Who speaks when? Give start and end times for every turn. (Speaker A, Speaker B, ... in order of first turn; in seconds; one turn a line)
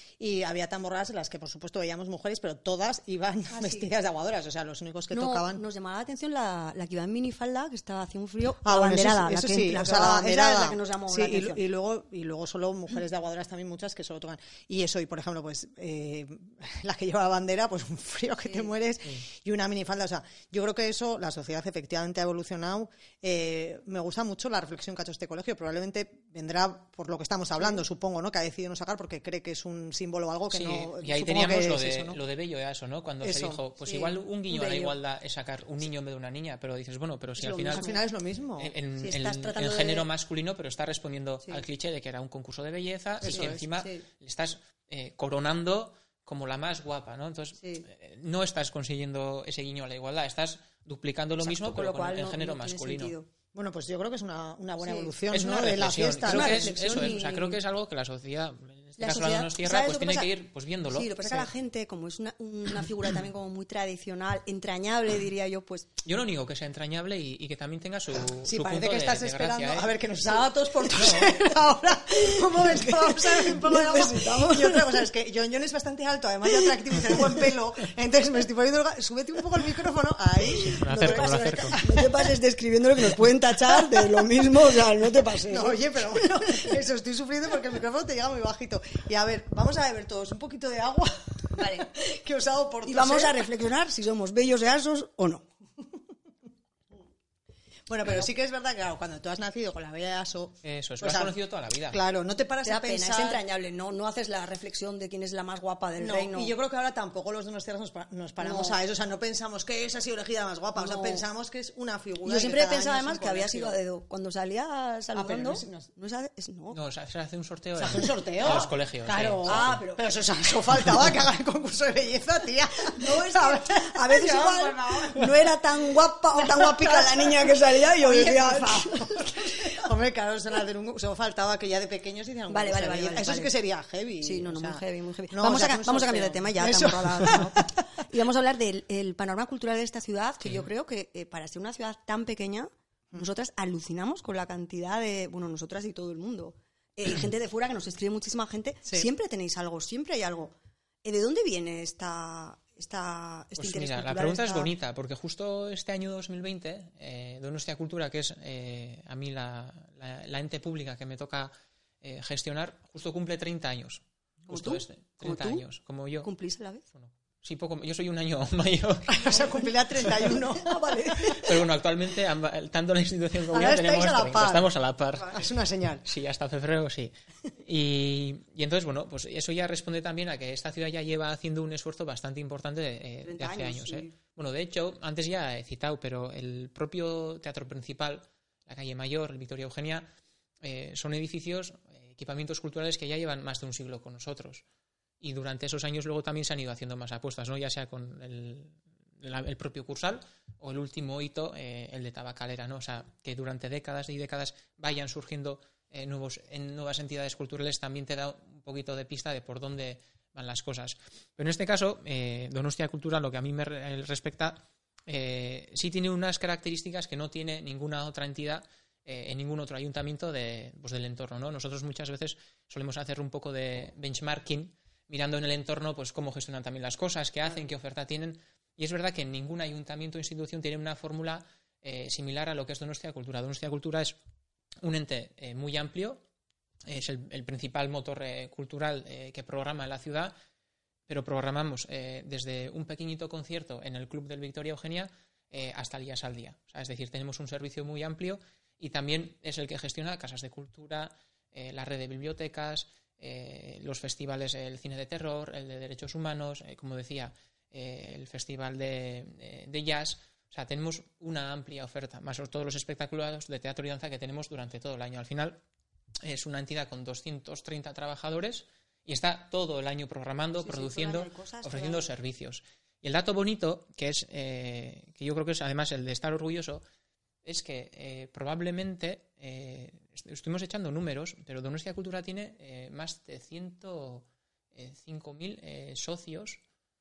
Speaker A: 0.2-5.6
Speaker B: 3.5-3.9
Speaker B: 5.1-11.6
Speaker A: 8.6-32.2
Speaker C: 30.5-37.9
Speaker A: 33.2-33.6
Speaker B: 33.8-34.9
Speaker B: 37.4-38.0
Speaker A: 37.7-38.7
Speaker C: 38.6-53.1
Speaker B: 39.0-40.1
Speaker A: 43.2-43.6
Speaker B: 43.3-44.0
Speaker B: 47.6-47.9
Speaker B: 51.4-53.3
Speaker A: 53.5-57.2
Speaker B: 54.8-55.1
Speaker C: 55.3-61.5
Speaker B: 56.2-57.6
Speaker B: 59.0-60.3
Speaker B: 60.9-65.9
Speaker C: 66.0-69.9
Speaker A: 68.2-82.1
Speaker C: 71.0-71.3
Speaker B: 72.1-75.0
Speaker B: 80.5-86.7
Speaker C: 80.8-81.8
Speaker A: 85.4-93.5
Speaker B: 91.5-91.9
Speaker B: 92.8-95.5
Speaker A: 97.9-101.3
Speaker C: 100.6-102.0
Speaker A: 101.9-103.4
Speaker B: 102.6-106.5
Speaker A: 106.0-113.8
Speaker B: 108.4-108.8
Speaker B: 110.7-111.2
Speaker B: 112.2-116.8
Speaker A: 115.1-115.9
Speaker C: 116.7-119.8
Speaker A: 117.8-137.8
Speaker B: 119.4-120.0
Speaker B: 123.0-129.8
Speaker B: 132.5-133.5
Speaker B: 134.2-154.7
Speaker C: 153.6-161.5
Speaker C: 162.0-166.3
Speaker B: 164.5-165.6
Speaker B: 166.2-166.8
Speaker C: 166.9-169.2
Speaker A: 169.1-171.3
Speaker B: 169.2-171.4
Speaker C: 171.2-175.5
Speaker A: 173.5-174.7
Speaker A: 175.2-176.0
Speaker C: 176.1-190.1
Speaker B: 183.2-184.1
Speaker C: 190.6-194.6
Speaker C: 195.2-234.2
Speaker C: 234.8-236.2
Speaker C: 236.8-240.3
Speaker C: 241.1-265.6
Speaker C: 266.2-276.8
Speaker B: 270.6-272.1
Speaker C: 277.4-286.6